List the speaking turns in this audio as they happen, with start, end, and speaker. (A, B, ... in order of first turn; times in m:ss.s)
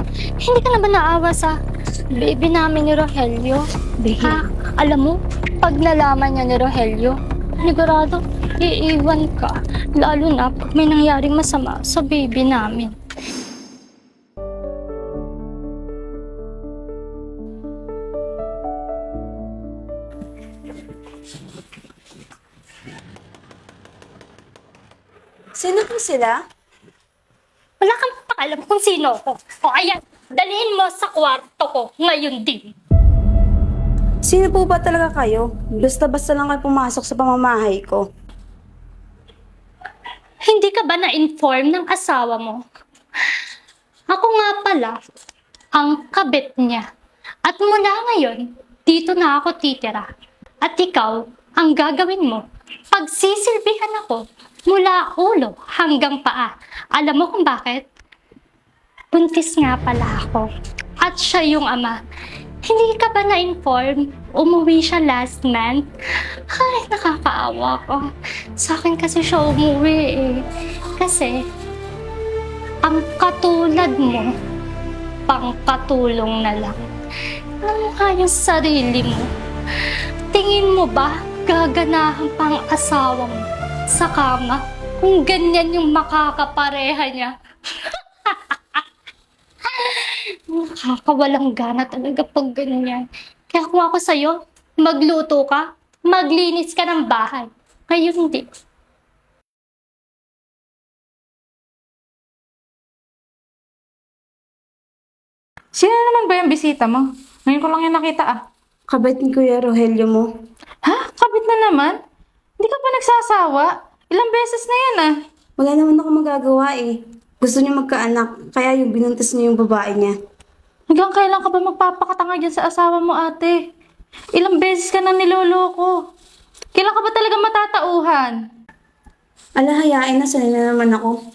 0:00.4-0:01.5 A
0:02.1-0:12.9 A
0:04.0-0:04.3 B
0:25.6-0:26.4 C
0:27.8-0:32.7 A
0:34.2-0:38.0 C
0:40.4-0:42.6 A
0:44.1-0:44.9 A
0:45.7-0:46.8 A
0:47.4-0:50.1 A
0:50.6-0:57.8 A
0:59.1-1:00.5 A
1:01.0-1:02.0 A
1:02.6-1:05.8 A
1:06.5-1:08.1 A
1:08.6-1:11.4 A
1:12.8-1:14.3 A
1:15.3-1:16.8 A
1:17.6-1:19.3 A
1:20.3-1:28.8 A
1:29.6-1:38.4 A
1:45.7-1:48.4 B
1:48.9-1:50.3 C
1:50.8-1:52.0 B
1:52.6-1:55.1 B
1:55.6-2:00.1 C
2:00.9-2:03.6 B
2:04.3-2:05.9 B
2:06.7-2:08.4 B
2:09.6-2:11.2 C